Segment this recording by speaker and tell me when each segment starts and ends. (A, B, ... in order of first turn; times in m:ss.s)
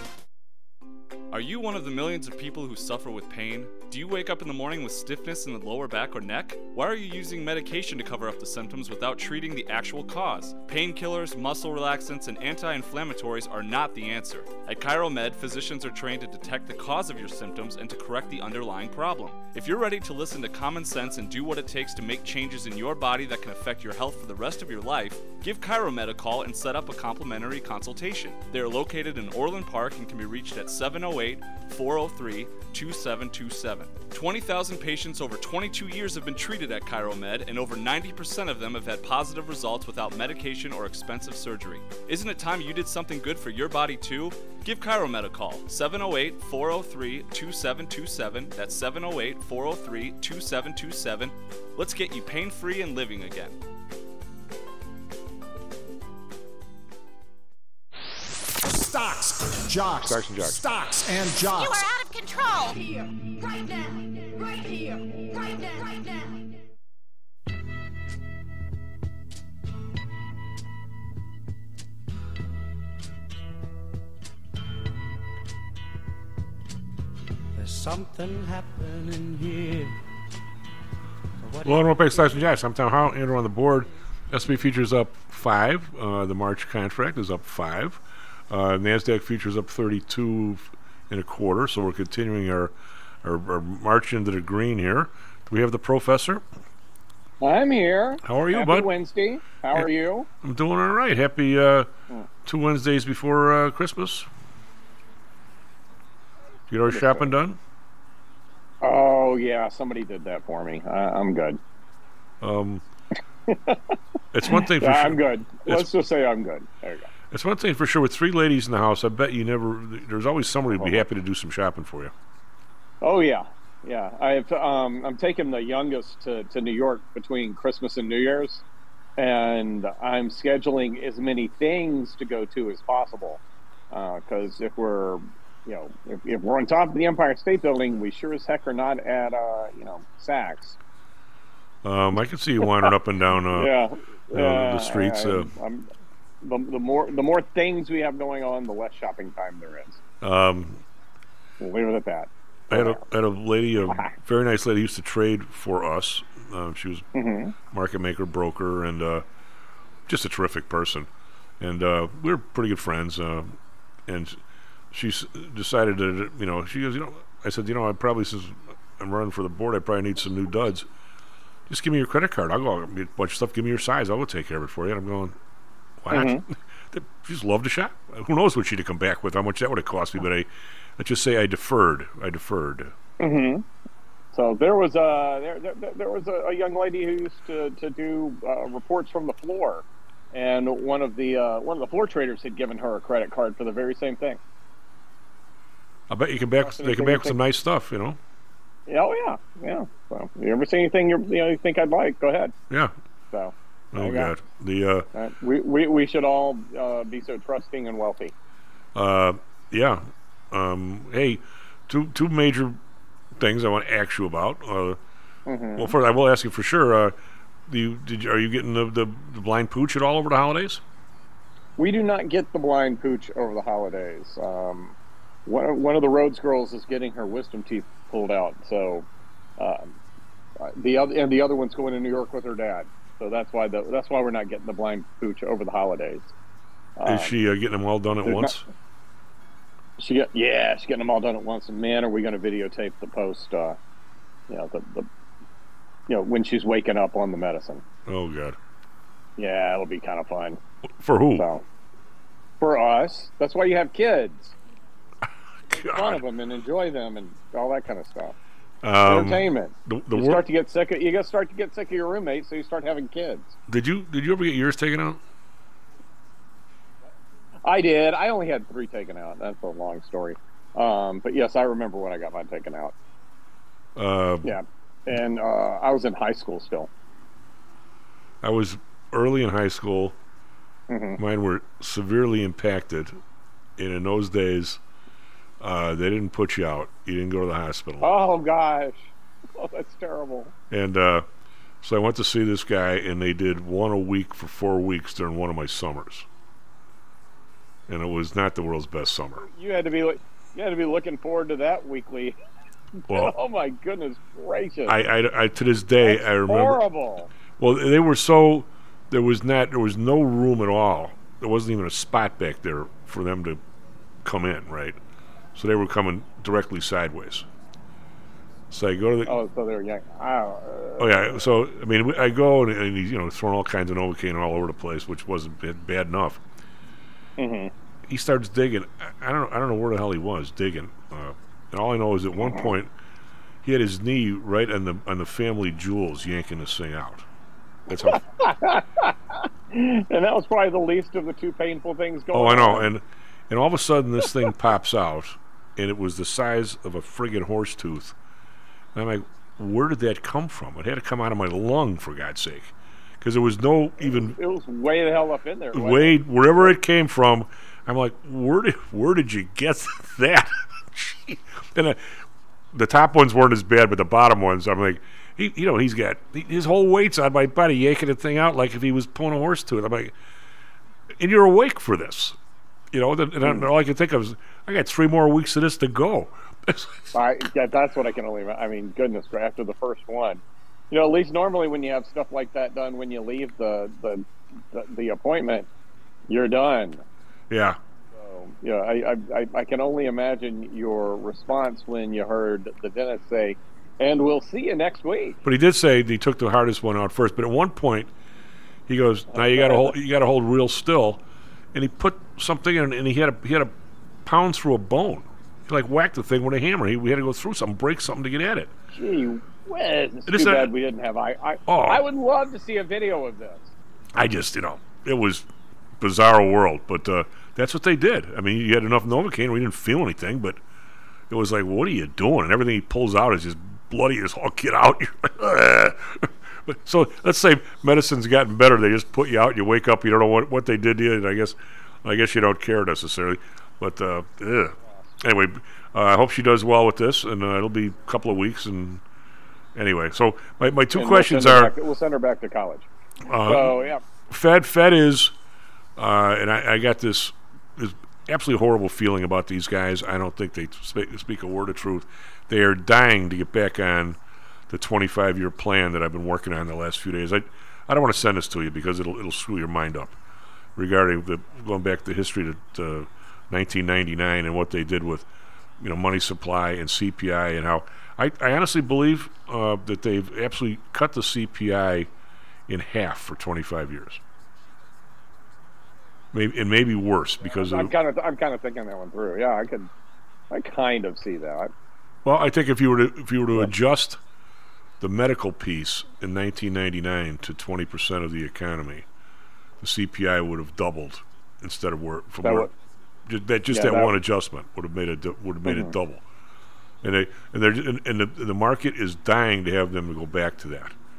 0:01.3-0:53.6 A
0:58.6-1:01.8 B
1:00.0-1:00.6 C
1:01.6-1:06.6 D
1:17.5-1:20.0 E
1:21.4-1:22.4 E
1:21.6-1:32.7 C
1:33.2-1:36.4 C
1:37.4-1:40.3 F
1:38.2-1:38.9 C
1:40.4-1:41.9 C
1:42.4-1:44.3 C
1:46.7-1:47.6 C
1:46.8-1:47.3 F
1:48.8-1:51.6 F
1:52.4-1:52.8 C
1:53.5-1:57.1 F
1:54.3-1:55.9 C
1:57.3-2:02.1 C
2:00.7-2:01.0 F
2:03.0-2:08.6 F
2:09.2-2:20.8 F
2:21.8-2:23.7 C
2:22.6-2:22.9 F
2:23.5-2:25.9 F
2:24.3-2:25.5 C
2:26.4-2:30.0 F
2:30.2-2:30.8 C
2:31.6-2:33.0 F
2:32.7-2:37.1 C
2:33.8-2:34.1 F
2:37.1-2:37.6 F
2:37.7-2:39.2 C
2:40.1-2:41.1 C
2:41.6-2:44.4 C
2:44.9-2:50.9 C
2:51.7-2:55.4 C
2:56.0-3:02.9 C
2:56.1-2:56.4 F
3:03.2-3:03.6 F
3:04.3-3:14.4 F
3:16.1-3:18.2 C
3:16.6-3:17.4 F
3:18.9-3:22.5 F
3:23.3-3:24.3 F
3:23.9-3:25.1 C
3:25.1-3:28.3 F
3:28.9-3:32.8 C
3:33.3-3:35.0 C
3:35.4-3:35.9 F
3:35.8-3:37.1 C
3:37.7-3:40.8 C
3:41.8-3:44.9 F
3:45.4-3:49.0 F
3:49.6-3:49.9 F
3:50.6-3:56.3 F
3:57.0-3:57.4 F
3:57.0-3:58.6 C
3:58.2-3:58.6 F
4:00.0-4:03.8 F
4:04.5-4:05.1 F
4:06.1-4:07.8 F
4:08.0-4:08.6 C
4:09.4-4:10.6 F
4:11.0-4:11.4 C
4:11.4-4:11.6 F
4:12.6-4:14.5 F
4:15.7-4:16.2 C
4:15.7-4:18.4 F
4:18.8-4:20.4 C
4:19.0-4:23.5 F
4:23.7-4:25.2 C
4:27.6-4:32.9 F
4:34.0-4:34.5 C
4:34.4-4:36.9 F
4:38.4-4:40.2 C
4:40.9-4:41.2 F
4:41.2-4:43.2 C
4:43.8-4:44.8 C
4:45.6-4:48.1 C
4:48.0-4:50.5 F
4:50.7-4:51.2 C
4:51.8-4:56.3 C
4:57.9-4:59.5 C
4:59.4-5:02.4 F
5:03.1-5:05.0 F
5:03.1-5:03.3 C
5:04.8-5:06.8 C
5:06.0-5:07.3 F
5:07.6-5:13.6 C
5:14.2-5:15.0 C
5:15.5-5:17.4 C
5:18.7-5:19.4 C
5:19.2-5:21.4 F
5:21.0-5:26.4 C
5:27.4-5:27.7 F
5:28.1-5:32.9 C
5:32.4-5:32.7 F
5:33.6-5:37.2 C
5:37.9-5:38.2 C
5:38.0-5:42.9 F
5:42.3-5:48.2 C
5:48.9-5:54.4 C
5:54.0-5:56.8 F
5:55.7-6:02.2 C
6:02.7-6:10.1 C
6:11.2-6:12.4 C
6:12.9-6:17.1 C
6:17.1-6:25.7 F
6:26.3-6:27.0 F
6:27.5-6:27.8 C
6:28.1-6:35.4 F
6:35.4-6:38.1 C
6:38.9-6:41.2 C
6:39.3-6:39.9 F
6:41.7-6:43.7 C
6:44.2-6:48.7 C
6:48.9-6:53.7 F
6:50.2-6:50.7 C
6:51.7-6:52.0 C
6:54.1-6:55.4 C
6:56.0-7:00.6 C
7:01.3-7:19.0 C
7:19.7-7:21.7 C
7:20.9-7:22.8 F
7:23.2-7:25.3 C
7:23.4-7:24.0 F
7:26.0-7:34.2 C
7:34.7-7:40.2 C
7:40.8-7:45.3 C
7:45.8-7:52.1 C
7:52.7-7:54.2 C
7:56.3-7:57.9 C
7:57.4-7:59.9 F
8:00.5-8:01.7 F
8:02.2-8:04.2 C
8:05.0-8:09.0 C
8:09.8-8:12.7 C
8:12.4-8:12.7 F
8:13.2-8:16.2 C
8:13.7-8:14.2 F
8:15.6-8:15.9 F
8:17.0-8:20.9 C